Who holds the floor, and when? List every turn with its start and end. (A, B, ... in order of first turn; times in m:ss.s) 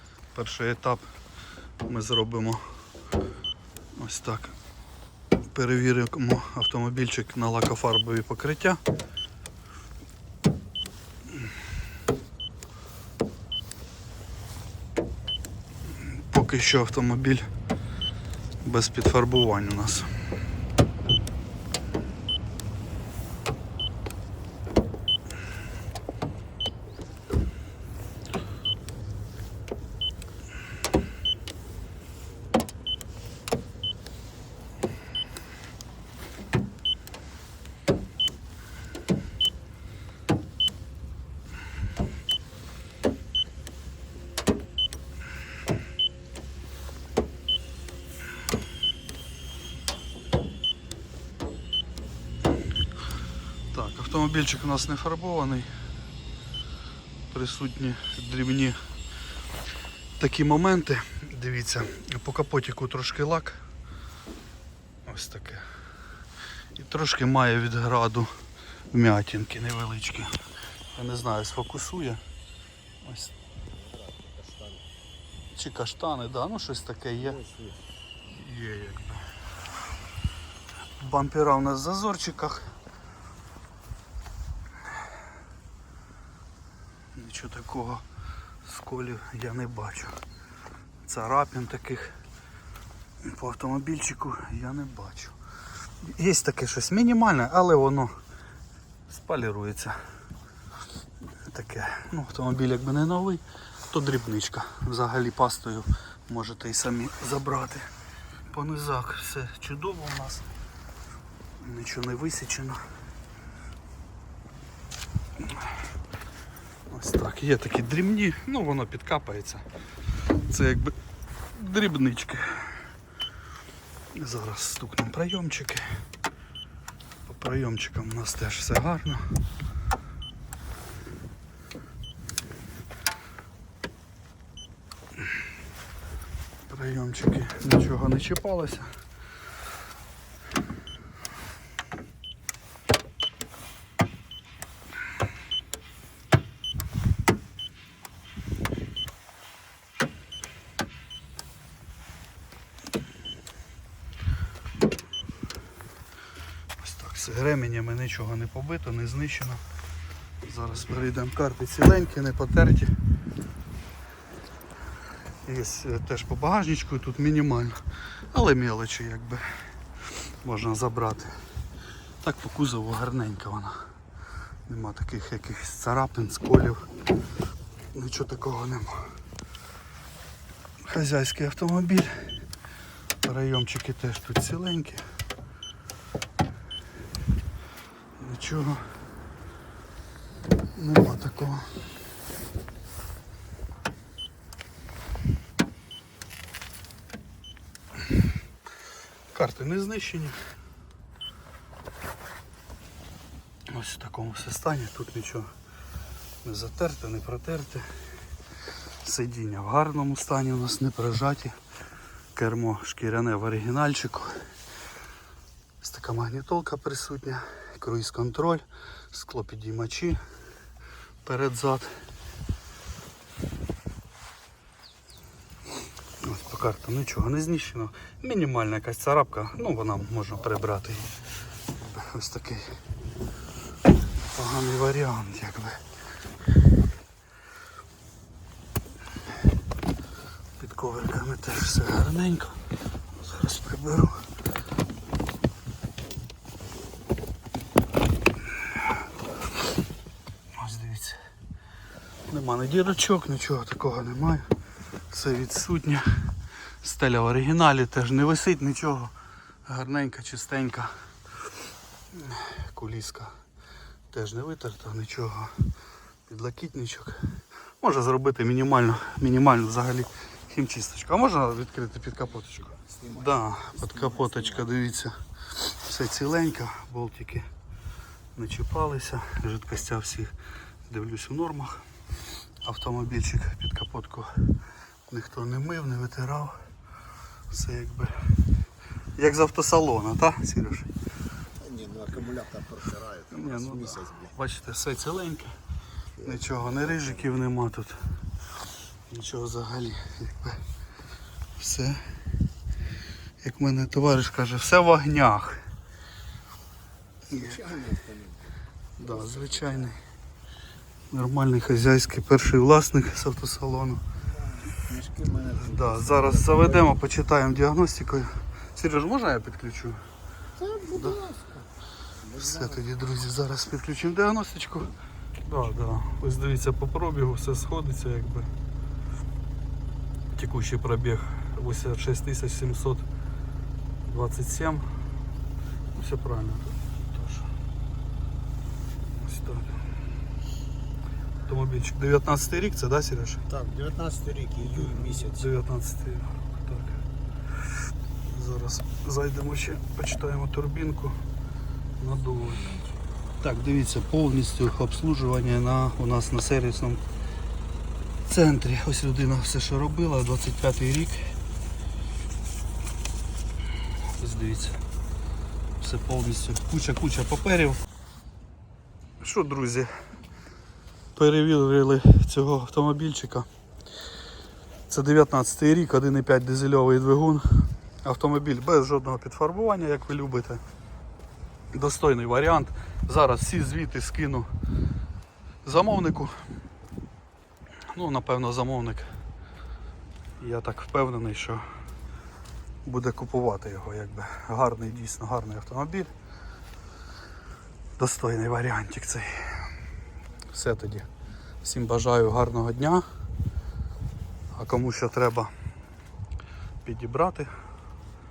0:00.3-0:01.0 A
0:01.8-0:02.6 A
0:04.0-0:04.5 A
0:05.5-0:08.8 A
0:16.0-0:17.4 A
0:18.6-0:20.1 A
0:53.7-0:55.7 A
0:57.3-0:58.8 A
1:00.2-1:03.6 A
1:05.0-1:05.6 A
1:06.7-1:08.3 A
1:08.9-1:10.4 A
1:10.9-1:12.2 A
1:13.0-1:13.3 A
1:13.7-1:14.8 B
1:15.5-1:17.4 A
1:17.2-1:17.8 B
1:18.3-1:19.3 A
1:21.0-1:22.7 A
1:27.1-1:28.0 A
1:28.6-1:30.2 A
1:31.0-1:32.2 A
1:33.2-1:35.4 A
1:36.0-1:38.1 A
1:39.1-1:40.0 A
1:41.4-1:47.9 A
1:48.5-1:50.5 A
1:51.6-1:52.8 A
1:56.9-1:59.6 A
2:00.4-2:00.9 A
2:01.5-2:02.7 A
2:04.1-2:05.9 A
2:07.2-2:09.4 A
2:16.6-2:18.9 A
2:36.8-2:39.6 A
2:40.4-2:42.9 A
2:45.4-2:49.5 A
2:50.4-2:51.3 A
2:52.2-2:53.8 A
2:54.7-2:56.8 A
2:57.9-2:59.1 A
3:00.8-3:02.3 A
3:03.2-3:05.0 A
3:08.2-3:08.8 A
3:10.7-3:11.7 A
3:19.3-3:20.4 A
3:23.7-3:25.5 A
3:26.4-3:27.9 A
3:29.0-3:31.5 A
3:32.3-3:34.4 A
3:35.8-3:40.2 A
3:41.2-3:41.9 A
3:46.2-3:51.2 A
3:51.8-3:52.7 A
3:54.3-3:55.8 A
4:00.6-4:02.6 A
4:03.2-4:04.2 A
4:10.5-4:11.2 A
4:12.3-4:14.5 A
4:15.1-4:16.1 A
4:16.8-4:19.1 A
4:19.6-4:20.9 A
4:22.1-4:23.3 A
4:24.1-4:25.7 A
4:26.3-4:37.5 A
4:33.0-4:34.7 B
4:38.3-4:40.3 A
4:40.9-4:41.8 A
4:42.6-4:44.5 A
4:45.1-4:46.6 A
4:47.5-4:48.2 A
4:49.2-4:50.9 A
4:51.6-4:54.3 B
4:53.3-4:55.5 A
4:56.2-4:57.3 B
4:56.2-4:58.0 A
4:59.1-5:00.6 A
5:01.6-5:02.0 A
5:03.4-5:05.6 A
5:07.3-5:07.6 A
5:07.3-5:08.4 B
5:09.0-5:09.9 B
5:09.0-5:10.0 A
5:11.1-5:14.0 A
5:14.4-5:16.9 B
5:15.6-5:20.0 A
5:20.6-5:21.6 B
5:20.9-5:21.2 A
5:22.2-5:22.8 B
5:22.4-5:24.9 A
5:25.4-5:28.5 A
5:30.3-5:33.0 A
5:34.0-5:34.9 A
5:36.0-5:37.5 A
5:39.1-5:39.8 A
5:41.4-5:43.4 A
5:43.5-5:45.4 B
5:44.7-5:47.0 A
5:48.2-5:51.2 A
5:52.0-5:52.8 A
5:53.4-5:57.0 A
5:58.2-6:01.4 A
6:04.2-6:04.8 A
6:05.8-6:07.8 A
6:09.2-6:09.9 A
6:11.1-6:13.5 A
6:14.9-6:20.6 A
6:21.7-6:24.5 A
6:25.6-6:26.4 A
6:27.9-6:29.1 A
6:30.4-6:31.6 A
6:32.8-6:36.1 A
6:38.0-6:39.6 A
6:40.5-6:41.1 A
6:41.6-6:43.0 A
6:44.5-6:45.5 A
6:46.8-6:47.5 A